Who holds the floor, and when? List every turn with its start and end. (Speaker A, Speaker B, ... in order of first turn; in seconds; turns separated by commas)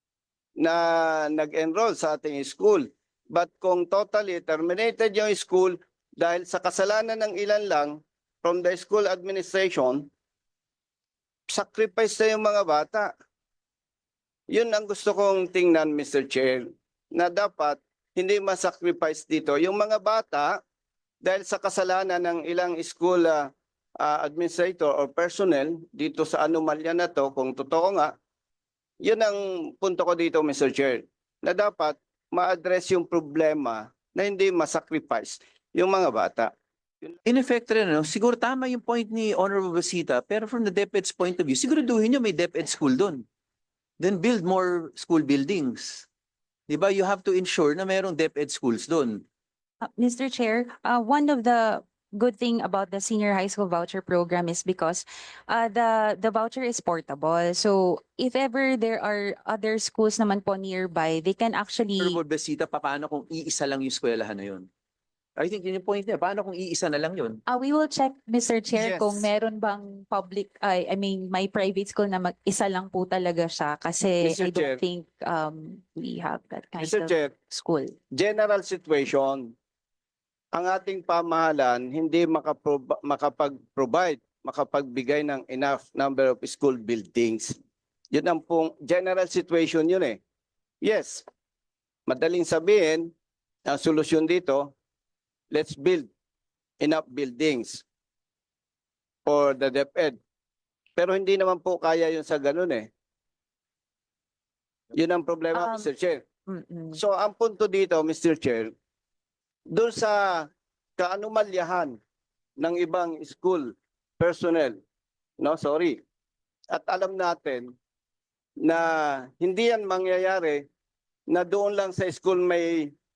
Speaker A: 0.6-10.1, Speaker A: 11.5-13.1, Speaker A: 14.5-20.6, Speaker A: 21.2-28.1, Speaker A: 29.0-37.2, Speaker B: 37.2-43.2, Speaker B: 44.0-46.1, Speaker B: 46.7-49.2, Speaker C: 49.8-62.2, Speaker B: 62.0-64.7, Speaker B: 65.4-67.4, Speaker C: 67.5-77.9, Speaker A: 68.7-69.2, Speaker A: 74.2-74.8, Speaker A: 76.8-77.3, Speaker A: 78.1-79.5, Speaker A: 80.5-87.6, Speaker A: 88.1-90.2, Speaker A: 90.8-91.2, Speaker A: 92.1-93.1, Speaker A: 93.7-94.7, Speaker A: 95.5-96.1, Speaker A: 96.8-97.8, Speaker A: 99.2-100.2, Speaker A: 101.0-102.9, Speaker A: 104.9-106.2, Speaker C: 105.5-105.9, Speaker C: 106.5-107.0, Speaker A: 106.9-108.7, Speaker A: 109.7-111.9, Speaker A: 112.6-114.8, Speaker A: 115.4-116.0, Speaker A: 116.7-117.7, Speaker A: 118.6-120.6, Speaker A: 121.3-122.9